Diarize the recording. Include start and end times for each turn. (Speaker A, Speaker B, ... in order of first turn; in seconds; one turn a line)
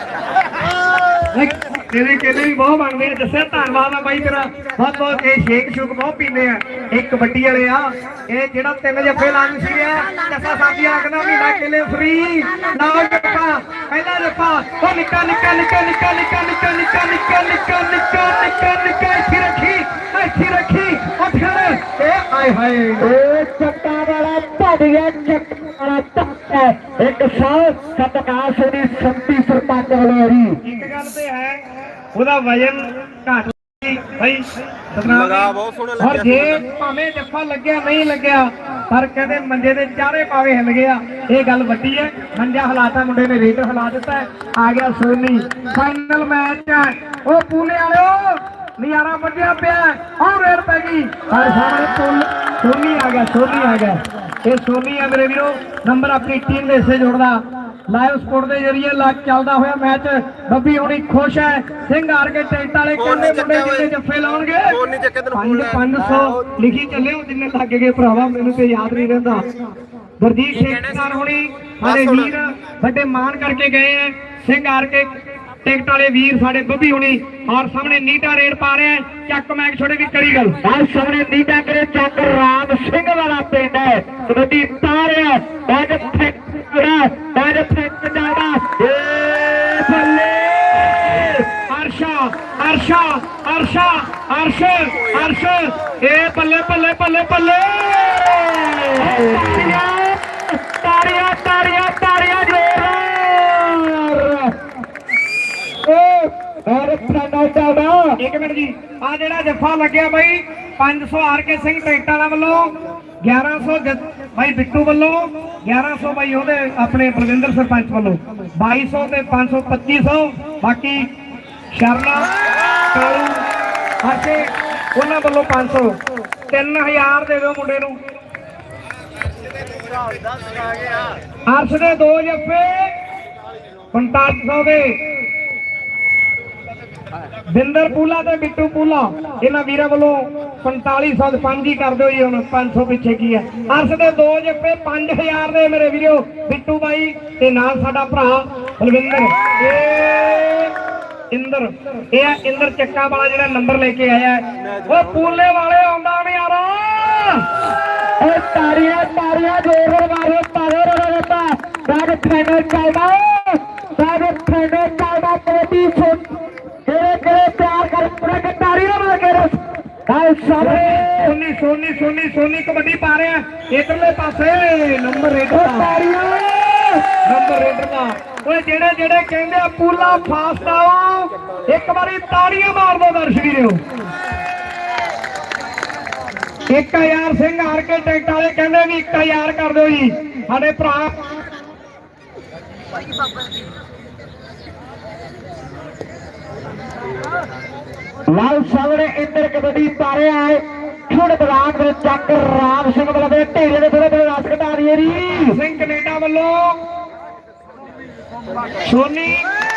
Speaker A: 1.3-23.1
Speaker B: 23.0-30.6
Speaker A: 30.6-64.7
Speaker C: 35.0-36.6
Speaker C: 63.0-63.9
Speaker C: 64.7-66.3
Speaker A: 65.3-69.4
Speaker A: 70.2-75.1
Speaker C: 71.8-72.3
Speaker A: 75.6-80.6
Speaker B: 80.6-91.5
Speaker A: 91.7-99.4
Speaker B: 98.9-104.5
Speaker B: 105.8-108.2
Speaker A: 108.2-121.0
Speaker A: 121.7-122.3
Speaker A: 122.9-123.4
Speaker A: 124.0-126.0
Speaker A: 126.5-128.0
Speaker A: 131.5-132.9
Speaker A: 133.9-135.0
Speaker A: 137.5-150.7
Speaker A: 151.3-157.4
Speaker C: 154.6-155.3
Speaker B: 158.2-171.3
Speaker A: 170.6-175.9
Speaker B: 175.5-177.2
Speaker A: 177.2-183.8
Speaker A: 186.7-191.4
Speaker B: 198.3-205.6
Speaker A: 205.5-206.8
Speaker A: 208.7-209.5